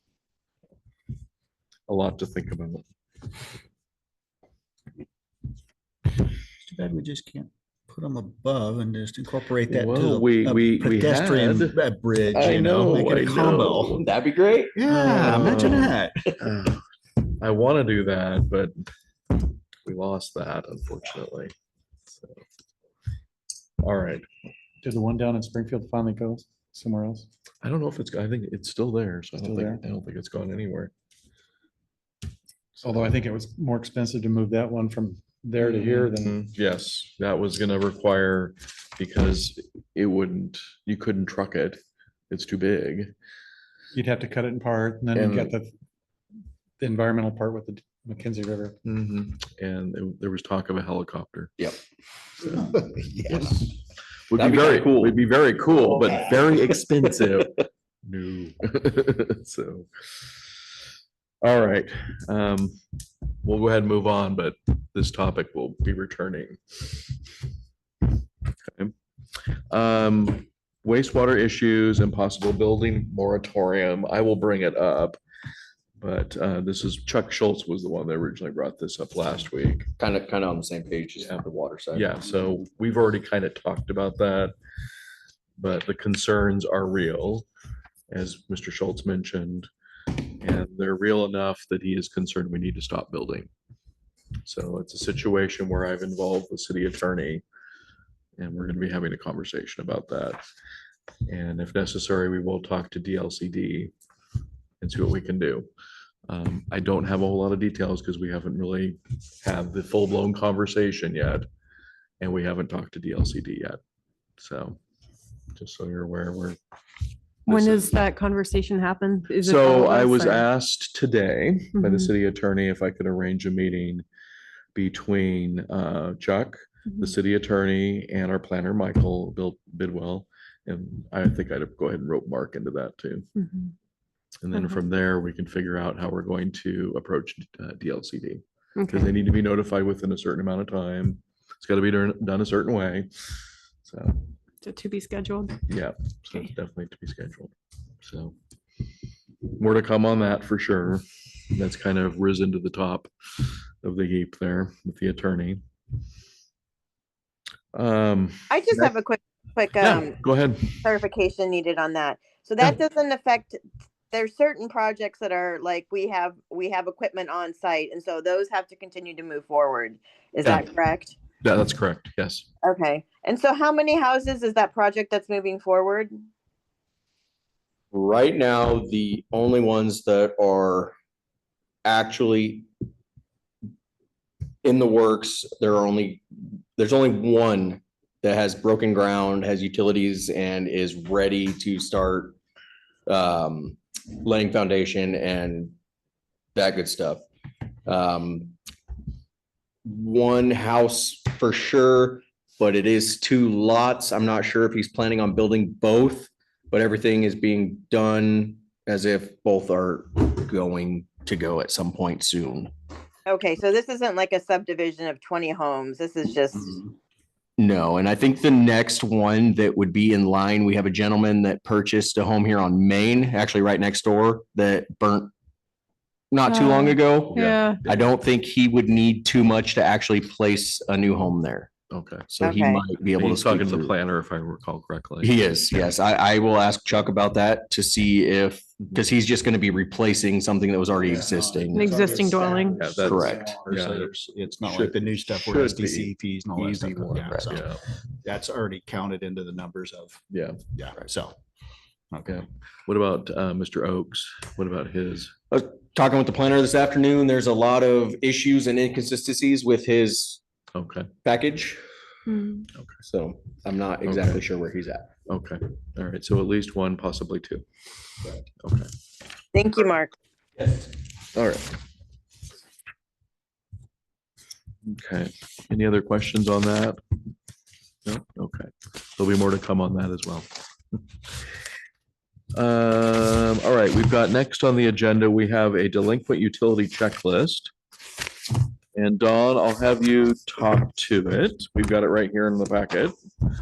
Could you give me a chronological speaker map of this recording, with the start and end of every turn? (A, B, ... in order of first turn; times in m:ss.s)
0:01.9-0:02.8 A
0:06.6-0:14.0 B
0:09.7-0:11.8 A
0:12.3-0:14.0 A
0:13.9-0:15.8 C
0:14.7-0:16.4 B
0:14.9-0:18.7 A
0:19.8-0:21.5 A
0:23.8-0:24.2 A
0:24.8-0:27.3 D
0:27.6-0:30.9 A
0:29.4-0:29.8 D
0:32.8-0:36.4 D
0:35.6-0:43.1 A
0:43.9-0:45.7 D
0:45.1-0:45.5 A
0:46.8-0:48.8 D
0:48.8-0:51.5 A
0:52.4-0:52.7 A
0:52.4-0:53.7 B
0:54.3-0:59.9 A
0:54.4-0:55.2 C
0:55.7-0:57.4 C
1:01.4-1:02.8 A
1:03.4-1:06.9 A
1:08.7-1:08.9 A
1:09.7-1:15.2 A
1:16.0-1:19.9 A
1:20.0-1:22.2 C
1:21.9-1:24.5 A
1:25.6-1:27.4 A
1:28.1-1:29.7 A
1:30.4-1:33.5 A
1:34.4-1:37.4 A
1:38.4-1:40.4 A
1:41.3-1:43.9 A
1:44.8-1:45.7 A
1:46.3-1:51.5 A
1:52.2-1:53.8 A
1:54.4-1:54.8 A
1:55.5-1:56.6 A
1:57.5-1:57.9 A
1:57.5-2:00.5 E
1:59.4-2:04.0 A
2:01.7-2:02.1 E
2:04.7-2:13.3 A
2:13.4-2:13.7 E
2:14.4-2:23.1 A
2:14.5-2:14.8 E
2:18.8-2:19.1 E
2:23.8-2:24.2 A
2:24.6-2:25.6 E
2:25.7-2:28.3 A
2:29.5-2:33.1 A
2:33.8-2:35.6 A
2:37.7-2:38.9 A
2:38.5-2:40.2 F
2:39.8-2:40.8 A
2:40.7-2:43.6 F
2:44.1-2:51.2 F
2:51.4-2:52.4 A
2:52.6-2:56.2 F
2:57.9-3:00.9 C
3:01.8-3:02.7 C
3:04.6-3:06.2 C
3:06.8-3:12.4 C
3:13.1-3:15.7 C
3:16.5-3:17.2 C
3:17.9-3:18.5 C
3:19.8-3:32.7 C
3:33.3-3:36.8 F
3:37.6-3:45.3 C
3:46.3-3:51.7 C
3:46.4-3:47.8 E
3:47.3-3:48.1 A
3:51.9-3:52.5 A
3:52.3-3:53.9 C
3:52.4-3:52.8 F
3:53.1-3:55.3 A
3:55.2-4:01.9 C
4:01.1-4:07.7 B
4:01.7-4:02.8 E
4:01.9-4:02.8 D
4:02.7-4:07.8 A
4:03.0-4:03.6 C
4:08.2-4:10.2 B
4:10.3-4:10.6 A
4:10.7-4:11.4 B
4:12.1-4:12.4 B
4:12.2-4:15.3 A
4:15.5-4:20.4 C
4:20.7-4:21.1 A
4:21.2-4:21.8 C
4:22.3-4:22.7 E
4:23.0-4:25.1 C
4:24.0-4:24.4 A
4:25.3-4:27.6 A
4:28.6-4:28.9 A
4:29.5-4:30.1 F
4:31.3-4:31.7 A
4:34.8-4:37.0 A
4:38.0-4:40.5 A
4:42.5-4:47.7 A
4:48.9-4:53.1 A